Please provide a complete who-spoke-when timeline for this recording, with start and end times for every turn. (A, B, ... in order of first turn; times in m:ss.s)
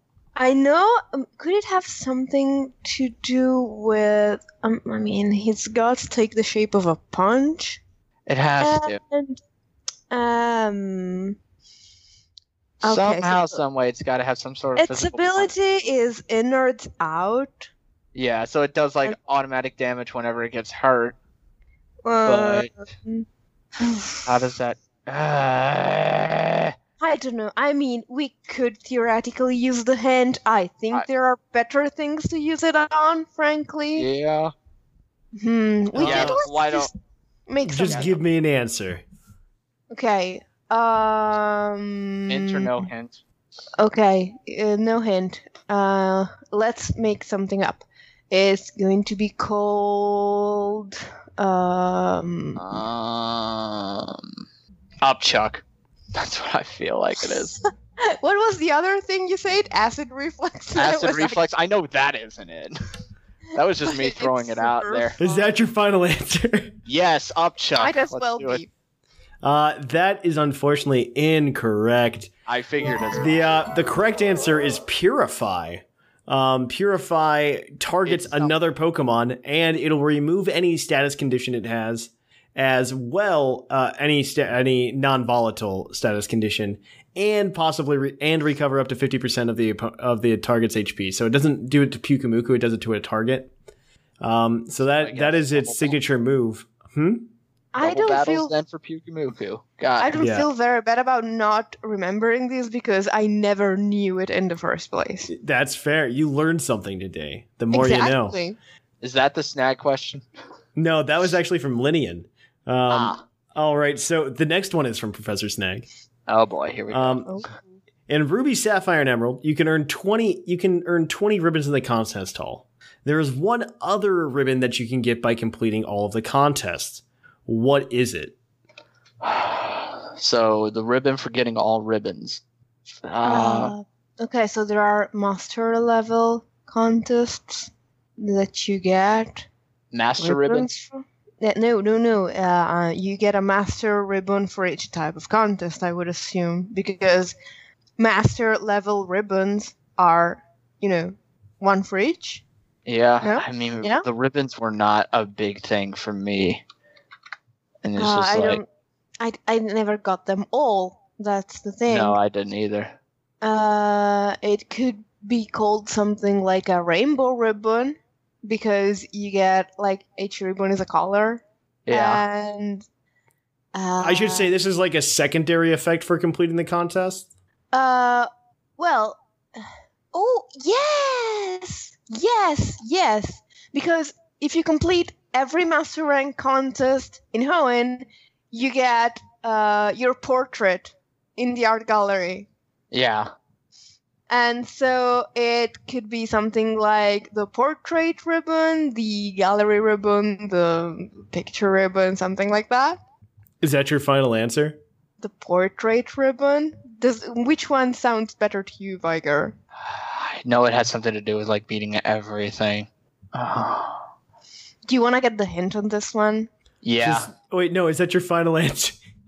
0:00.4-0:07.8 A
0:08.3-0:09.0 B
0:08.6-0:09.4 A
0:10.1-0:11.4 A
0:12.8-0:13.6 A
0:12.8-0:15.5 B
0:14.8-0:17.7 A
0:18.2-0:21.2 B
0:22.0-0:23.2 A
0:22.2-0:22.7 B
0:23.8-0:24.3 A
0:24.3-0:26.7 B
0:27.0-0:34.1 A
0:34.0-0:34.5 B
0:35.4-0:36.9 A
0:36.0-0:36.4 C
0:36.0-0:36.9 B
0:37.5-0:38.1 A
0:37.6-0:39.0 C
0:37.8-0:38.2 B
0:39.9-0:42.9 A
0:42.3-0:43.2 B
0:43.8-0:52.8 A
0:52.6-0:54.4 B
0:55.0-0:55.6 B
0:56.2-0:57.6 B
0:58.1-1:01.4 A
1:00.8-1:02.8 B
1:03.5-1:05.2 B
1:03.8-1:05.6 A
1:05.2-1:06.7 C
1:06.9-1:08.6 B
1:07.8-1:08.7 A
1:09.4-1:12.3 C
1:12.5-1:13.4 B
1:13.2-1:33.5 C
1:18.1-1:18.6 B
1:34.2-1:37.3 C
1:34.8-1:36.0 B
1:37.7-1:38.6 A
1:37.8-1:40.2 B
1:40.0-1:45.3 A
1:40.2-1:40.5 C
1:45.3-1:48.4 C
1:47.7-1:48.6 A
1:49.0-1:50.2 B
1:50.8-1:55.8 C
1:52.9-1:53.2 B
1:56.3-1:57.2 B
1:56.9-1:57.4 C
1:57.3-1:57.5 A
1:58.1-2:08.4 C
2:09.2-2:13.8 B
2:13.2-2:19.5 A
2:19.9-2:20.7 B
2:20.2-2:27.4 A
2:28.0-2:32.4 A
2:32.9-2:36.6 B
2:33.2-2:34.0 A
2:37.8-2:38.6 B
2:38.0-2:38.7 A
2:39.2-2:42.2 A
2:41.9-2:43.0 B
2:43.4-2:52.8 A
2:51.9-2:52.2 B
2:53.7-2:54.5 A
2:54.0-2:57.3 C
2:57.7-3:12.5 A
3:12.9-3:13.3 B
3:14.3-3:23.0 A
3:23.6-3:24.8 C
3:25.2-3:29.5 A
3:29.8-3:34.0 B
3:34.9-3:36.5 A
3:36.8-3:37.3 B
3:37.0-3:39.0 C